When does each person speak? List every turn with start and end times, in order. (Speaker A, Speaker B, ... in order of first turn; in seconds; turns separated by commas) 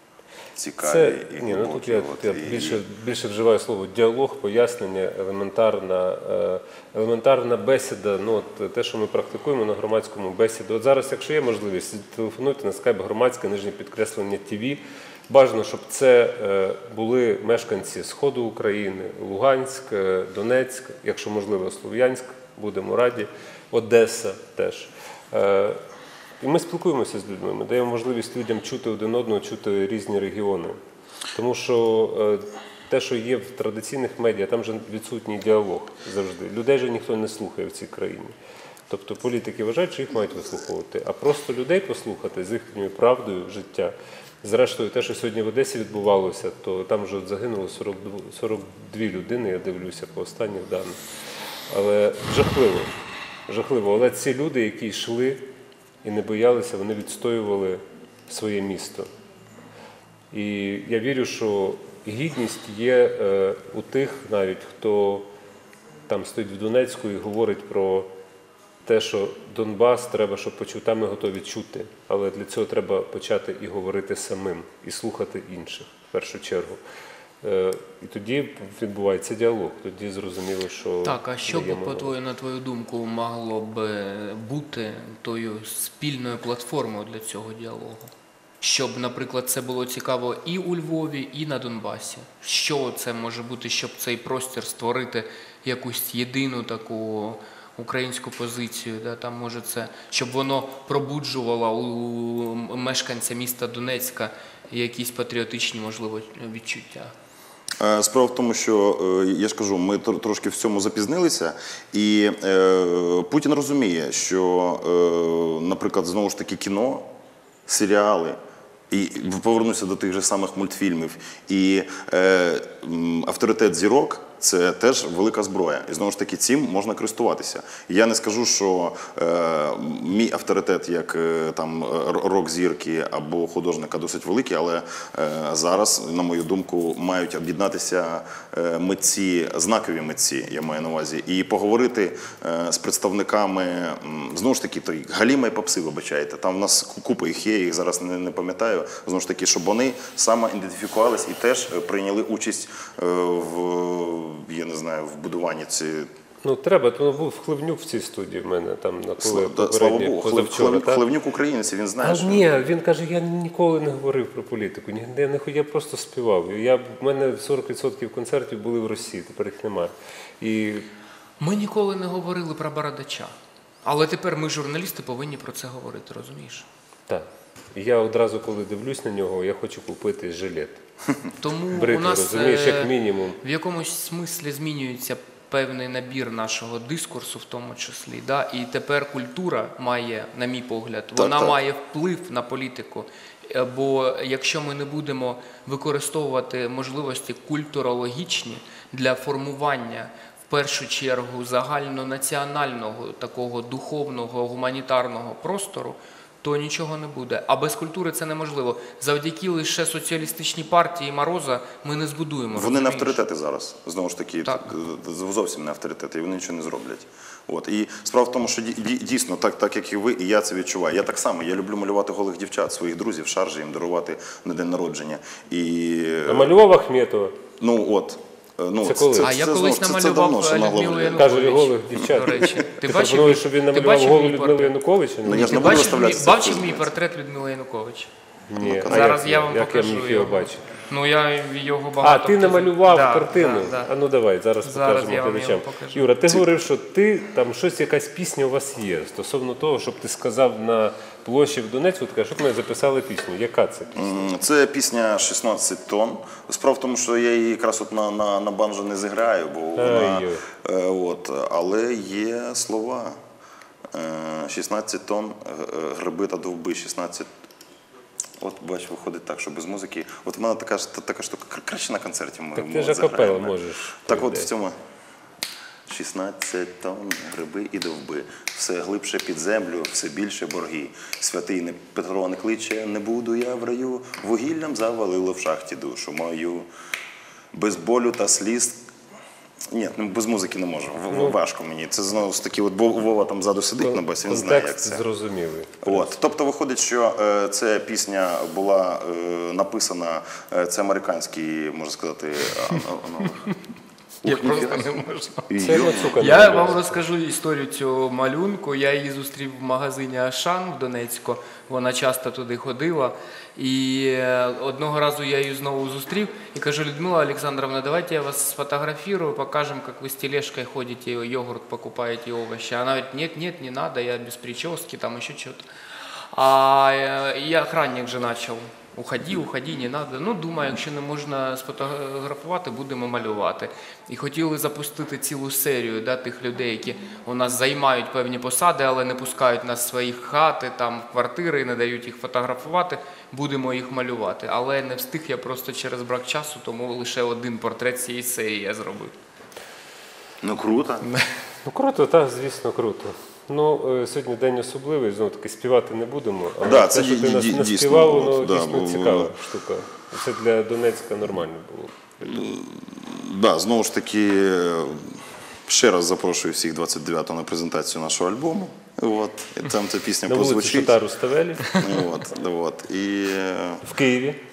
Speaker A: 0.6-2.8, Speaker B: 0.8-25.8, Speaker B: 26.4-30.8, Speaker B: 31.3-38.3, Speaker B: 38.9-51.0, Speaker B: 51.7-52.9, Speaker B: 53.5-55.4, Speaker B: 56.0-59.1, Speaker B: 60.3-65.3, Speaker B: 66.1-68.1, Speaker B: 68.8-76.8, Speaker B: 77.4-82.1, Speaker C: 81.0-107.1, Speaker A: 107.8-117.1, Speaker A: 117.7-118.4, Speaker A: 118.9-156.1, Speaker B: 156.4-161.0, Speaker A: 159.2-162.5, Speaker B: 162.0-170.9, Speaker C: 171.4-173.3, Speaker C: 173.8-176.7, Speaker B: 177.1-180.8, Speaker C: 181.4-213.2, Speaker B: 181.7-183.4, Speaker A: 191.2-191.6, Speaker A: 212.5-226.6, Speaker C: 214.4-214.7, Speaker B: 226.3-227.4, Speaker A: 227.6-231.3, Speaker B: 228.8-229.3, Speaker C: 229.2-234.7, Speaker B: 231.1-235.9, Speaker A: 235.2-236.9, Speaker C: 235.3-238.1, Speaker B: 238.5-240.7, Speaker A: 238.6-239.2, Speaker C: 238.8-243.9, Speaker B: 242.0-254.3, Speaker C: 244.6-246.1, Speaker A: 253.9-263.2, Speaker B: 259.8-260.4, Speaker A: 263.9-267.3, Speaker A: 268.4-273.6, Speaker B: 272.6-274.5, Speaker A: 274.1-274.8, Speaker A: 275.9-286.7, Speaker A: 287.5-288.8, Speaker A: 289.7-295.0, Speaker B: 291.1-291.4, Speaker B: 293.8-296.1, Speaker A: 295.8-303.5, Speaker A: 304.2-305.0, Speaker C: 304.2-325.7, Speaker A: 305.5-306.7, Speaker B: 305.6-307.0, Speaker C: 326.3-349.1, Speaker A: 350.4-351.1, Speaker C: 351.1-351.3, Speaker B: 351.6-362.3, Speaker A: 356.6-359.3, Speaker A: 362.2-370.9, Speaker B: 370.3-371.8, Speaker A: 371.8-373.8, Speaker B: 373.8-374.4